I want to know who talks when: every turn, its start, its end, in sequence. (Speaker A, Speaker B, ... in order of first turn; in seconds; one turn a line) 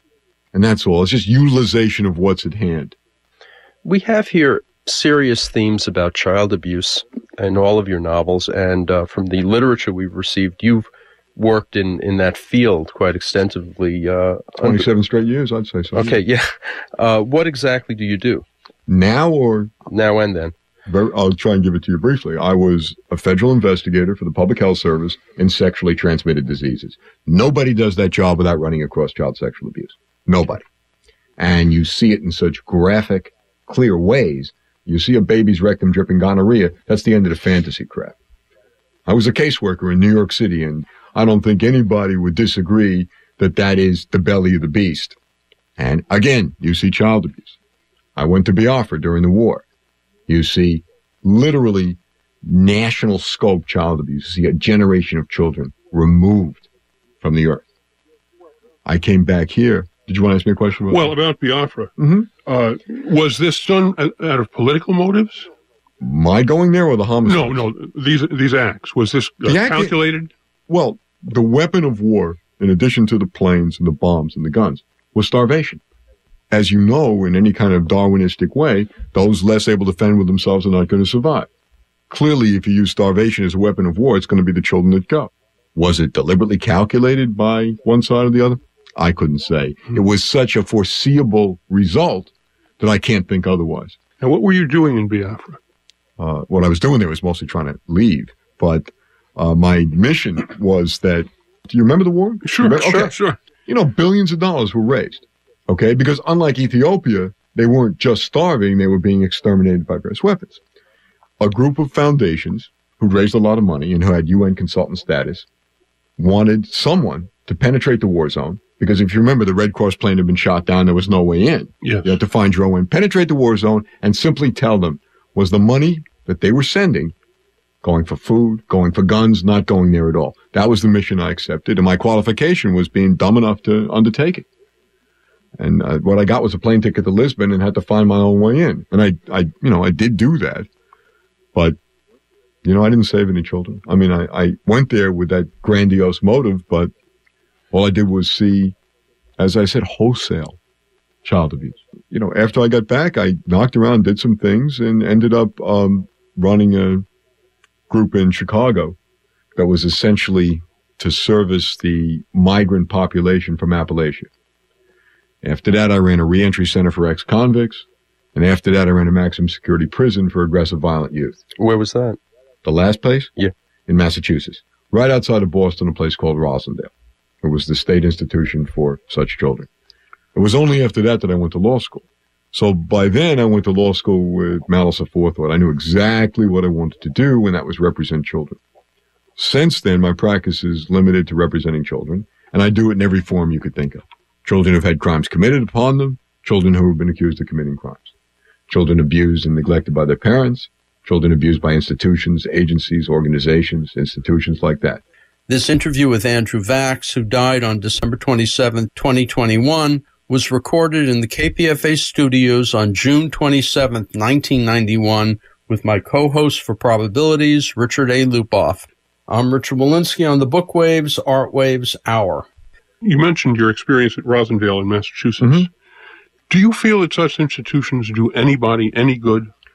Speaker A: 0.5-3.0
Speaker B: 3.8-14.9
Speaker A: 14.6-16.2
Speaker B: 15.9-18.4
Speaker A: 18.9-19.7
Speaker B: 19.9-20.5
Speaker A: 20.9-30.6
Speaker A: 31.4-38.1
Speaker A: 39.0-45.2
Speaker A: 45.8-47.5
Speaker A: 48.1-49.6
Speaker A: 50.3-56.6
Speaker A: 57.2-57.6
Speaker A: 58.8-61.1
Speaker C: 60.9-65.5
Speaker A: 62.0-62.3
Speaker A: 66.0-67.6
Speaker C: 67.2-70.3
Speaker A: 69.4-70.0
Speaker A: 70.7-75.8
Speaker A: 76.5-81.5
Speaker A: 82.1-94.0
Speaker C: 94.2-95.6
Speaker A: 96.2-110.6
Speaker C: 102.4-103.4
Speaker A: 111.4-115.5
Speaker A: 116.2-127.1
Speaker C: 121.8-122.1
Speaker A: 127.8-134.4
Speaker A: 135.6-140.7
Speaker A: 142.6-146.9
Speaker A: 147.7-148.7
Speaker A: 149.4-150.6
Speaker A: 151.2-157.1
Speaker A: 157.9-159.0
Speaker A: 159.5-164.3
Speaker A: 165.4-171.4
Speaker B: 171.6-172.2
Speaker A: 172.6-173.3
Speaker A: 173.9-176.9
Speaker A: 177.4-179.7
Speaker A: 180.3-188.6
Speaker A: 189.4-198.1
Speaker A: 198.7-205.0
Speaker D: 205.5-222.5
Speaker C: 223.0-225.7
Speaker A: 225.4-225.7
Speaker C: 226.5-229.5